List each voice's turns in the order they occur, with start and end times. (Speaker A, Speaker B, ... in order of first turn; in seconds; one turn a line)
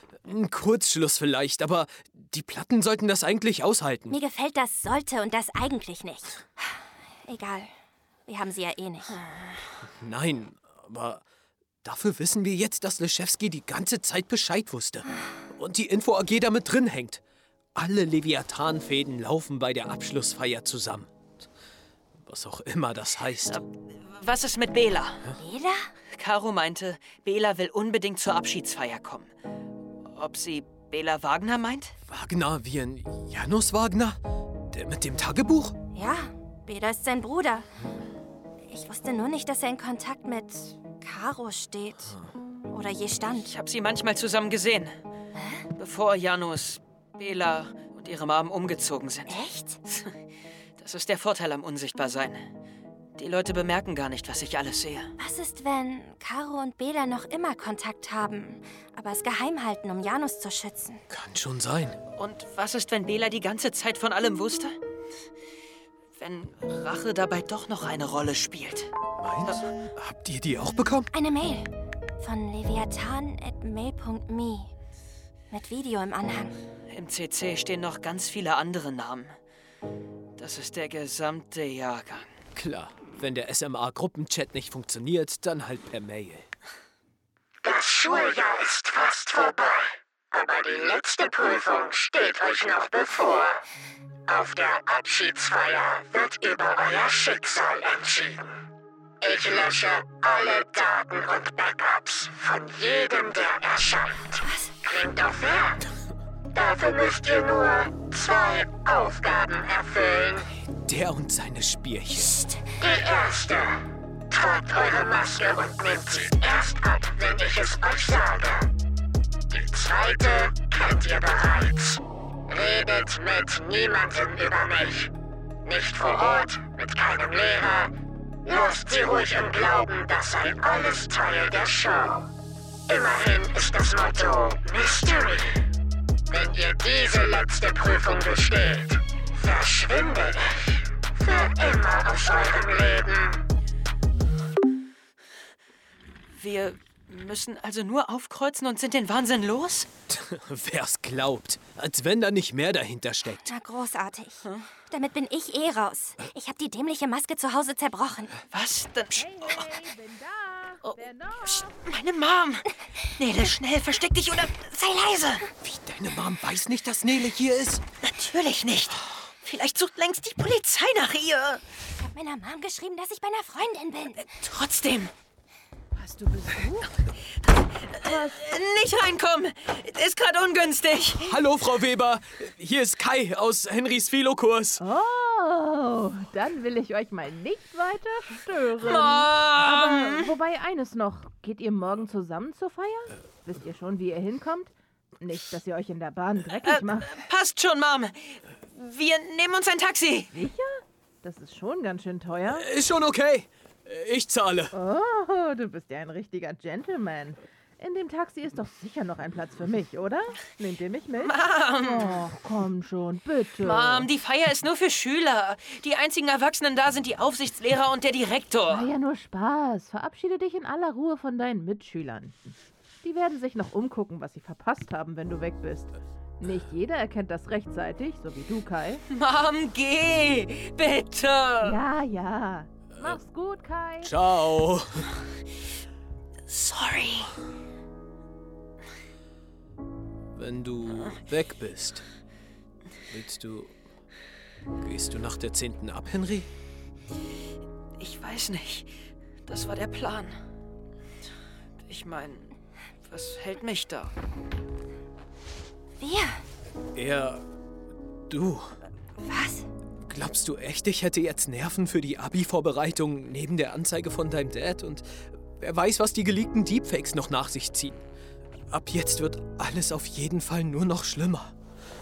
Speaker A: 0.2-4.2
Speaker B: 4.1-7.7
Speaker B: 8.3-9.2
Speaker A: 10.0-11.2
Speaker A: 11.8-17.2
Speaker A: 17.8-21.1
Speaker A: 22.2-23.6
Speaker C: 23.4-25.2
Speaker B: 25.4-25.9
Speaker C: 26.1-29.3
Speaker C: 30.1-32.0
Speaker A: 32.1-34.2
Speaker A: 34.7-35.8
Speaker B: 35.9-37.7
Speaker B: 38.7-42.1
Speaker B: 42.7-43.5
Speaker C: 43.3-44.9
Speaker B: 45.4-45.6
Speaker C: 45.8-50.1
Speaker B: 49.3-49.8
Speaker C: 50.8-52.5
Speaker C: 53.1-55.1
Speaker B: 55.2-61.0
Speaker A: 61.1-62.0
Speaker C: 62.1-64.8
Speaker C: 66.2-68.9
Speaker A: 69.2-71.1
Speaker B: 71.1-71.7
Speaker B: 72.2-74.7
Speaker B: 75.5-76.5
Speaker C: 76.9-79.4
Speaker C: 80.4-82.3
Speaker A: 82.5-86.5
Speaker D: 87.6-93.6
Speaker D: 94.3-98.6
Speaker D: 99.2-105.8
Speaker B: 104.4-104.7
Speaker D: 106.5-110.5
Speaker A: 110.7-112.4
Speaker B: 112.2-112.6
Speaker D: 112.8-118.7
Speaker D: 119.5-125.1
Speaker D: 125.6-127.9
Speaker D: 128.4-132.3
Speaker D: 132.9-135.6
Speaker D: 136.3-143.4
Speaker C: 146.3-149.9
Speaker A: 150.1-153.5
Speaker B: 153.4-158.4
Speaker C: 154.4-154.7
Speaker C: 158.5-159.8
Speaker E: 159.2-161.8
Speaker C: 160.8-165.5
Speaker A: 165.6-167.8
Speaker C: 168.0-171.6
Speaker B: 171.9-174.3
Speaker C: 174.2-175.1
Speaker E: 175.9-176.9
Speaker C: 176.8-181.3
Speaker E: 178.0-178.3
Speaker A: 181.2-184.8
Speaker E: 184.8-197.2
Speaker C: 188.8-190.3
Speaker C: 196.6-200.3
Speaker E: 200.3-202.7
Speaker A: 202.5-204.7
Speaker E: 204.7-214.1
Speaker C: 211.2-212.3
Speaker C: 213.6-218.9
Speaker E: 218.7-229.0
Speaker C: 229.1-231.8
Speaker E: 231.6-234.1
Speaker A: 232.9-233.2
Speaker A: 234.0-235.1
Speaker C: 236.5-237.3
Speaker A: 240.3-242.1
Speaker A: 243.1-243.8
Speaker A: 244.8-246.5
Speaker C: 248.0-250.3
Speaker C: 251.9-252.5
Speaker C: 253.1-254.1
Speaker B: 256.0-256.4
Speaker A: 256.9-257.4
Speaker A: 258.3-258.8
Speaker B: 259.2-259.6
Speaker A: 260.1-268.0
Speaker A: 268.7-271.5